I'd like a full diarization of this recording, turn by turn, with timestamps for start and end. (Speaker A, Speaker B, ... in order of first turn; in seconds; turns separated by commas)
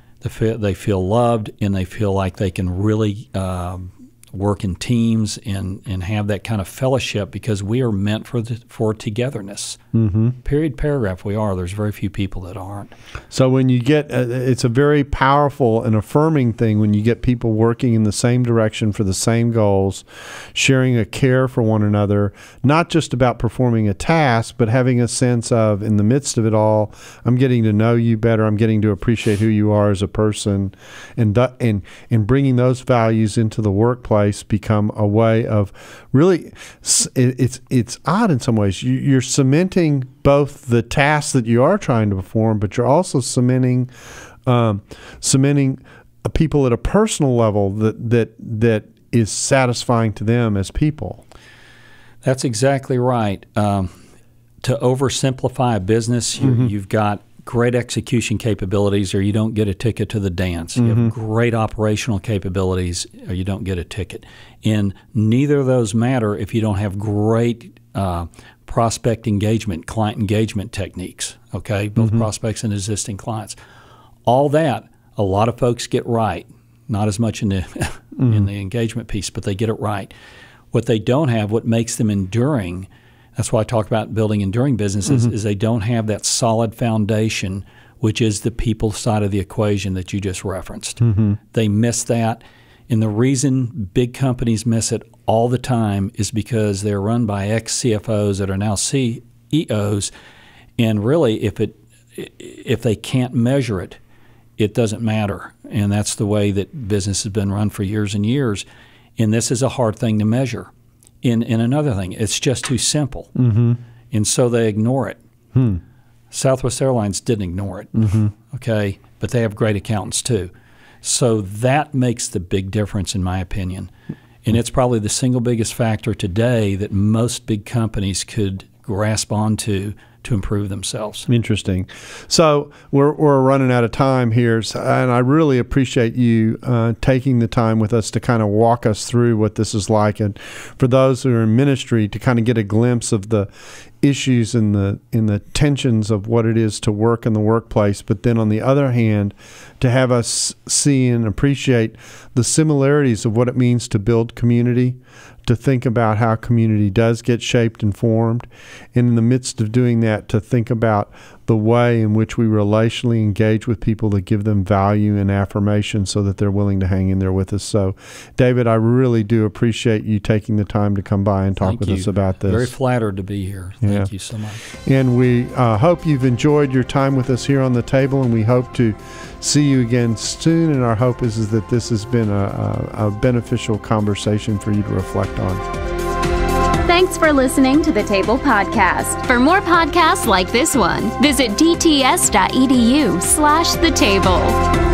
Speaker A: 0.2-9.8, Speaker B: 9.9-10.4, Speaker A: 10.4-12.9, Speaker B: 13.3-43.9, Speaker B: 44.5-51.2, Speaker A: 52.2-53.9, Speaker A: 54.6-73.6, Speaker B: 56.4-56.7, Speaker B: 60.8-61.1, Speaker A: 74.2-80.1, Speaker B: 78.2-78.5, Speaker A: 80.7-100.1, Speaker B: 91.0-91.4, Speaker A: 100.8-104.0, Speaker A: 104.6-108.6, Speaker A: 109.2-110.7, Speaker A: 111.2-113.3, Speaker B: 113.3-113.8, Speaker A: 114.1-115.2, Speaker B: 115.5-115.8, Speaker A: 116.3-120.5, Speaker A: 121.0-123.9, Speaker A: 124.4-131.3, Speaker B: 131.3-143.5, Speaker B: 144.0-172.7, Speaker A: 171.6-174.6, Speaker B: 173.8-174.1, Speaker B: 174.8-185.6, Speaker C: 186.8-194.6